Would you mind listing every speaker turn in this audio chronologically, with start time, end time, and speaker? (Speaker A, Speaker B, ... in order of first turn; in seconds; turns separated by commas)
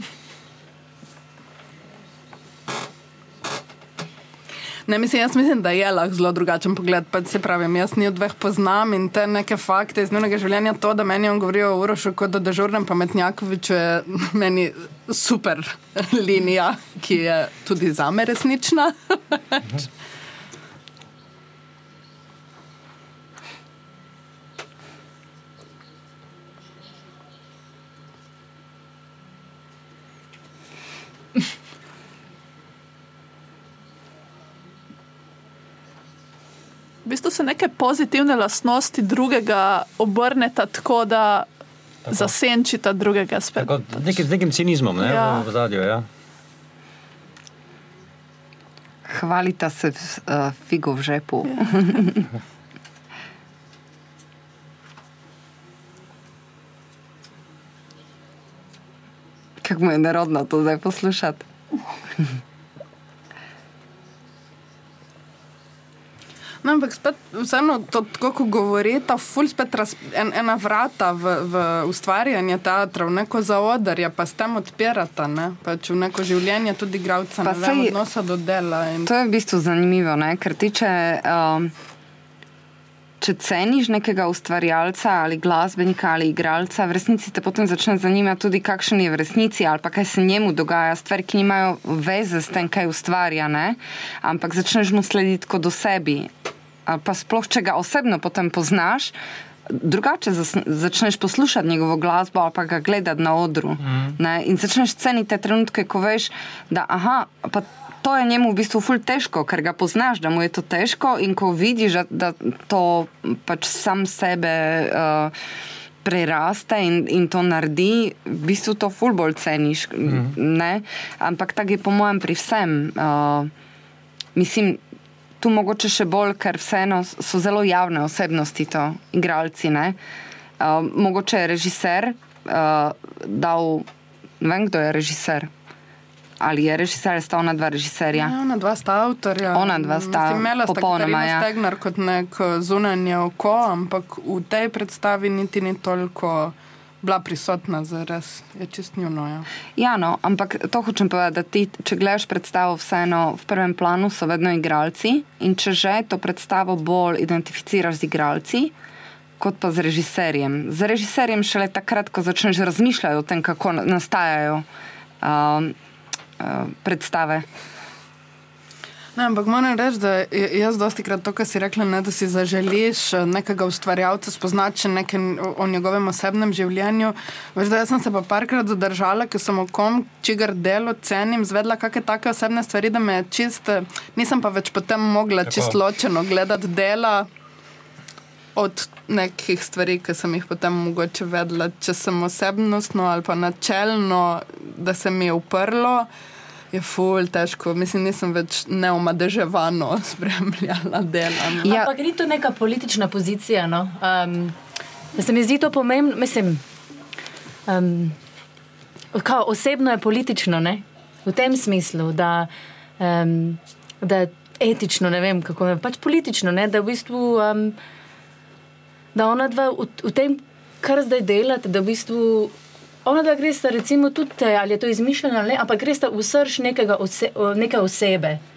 Speaker A: 4.9-18.9, Speaker B: 37.0-41.5, Speaker C: 42.0-42.3, Speaker B: 42.1-44.2, Speaker C: 43.6-46.0, Speaker B: 45.0-45.5, Speaker D: 49.1-52.3, Speaker D: 59.6-61.4, Speaker A: 66.6-79.1, Speaker D: 77.4-77.9, Speaker D: 79.0-81.7, Speaker D: 83.2-96.3, Speaker D: 96.9-99.1, Speaker D: 99.7-115.3, Speaker C: 103.8-104.1, Speaker D: 116.0-123.5, Speaker C: 120.0-120.3, Speaker D: 124.3-124.8, Speaker D: 125.4-130.0, Speaker D: 130.6-133.8, Speaker D: 134.4-135.5, Speaker D: 136.4-138.3, Speaker A: 138.1-149.5, Speaker D: 139.5-141.5, Speaker D: 149.8-158.7, Speaker D: 159.4-164.6, Speaker D: 165.2-165.7, Speaker D: 166.4-167.4, Speaker A: 169.2-187.3, Speaker C: 185.4-185.8, Speaker A: 188.6-196.1, Speaker A: 196.7-201.7, Speaker D: 201.6-201.9, Speaker E: 201.6-204.5, Speaker E: 205.1-206.6, Speaker E: 207.7-208.2, Speaker E: 209.1-217.8, Speaker E: 219.1-222.5, Speaker E: 223.0-228.4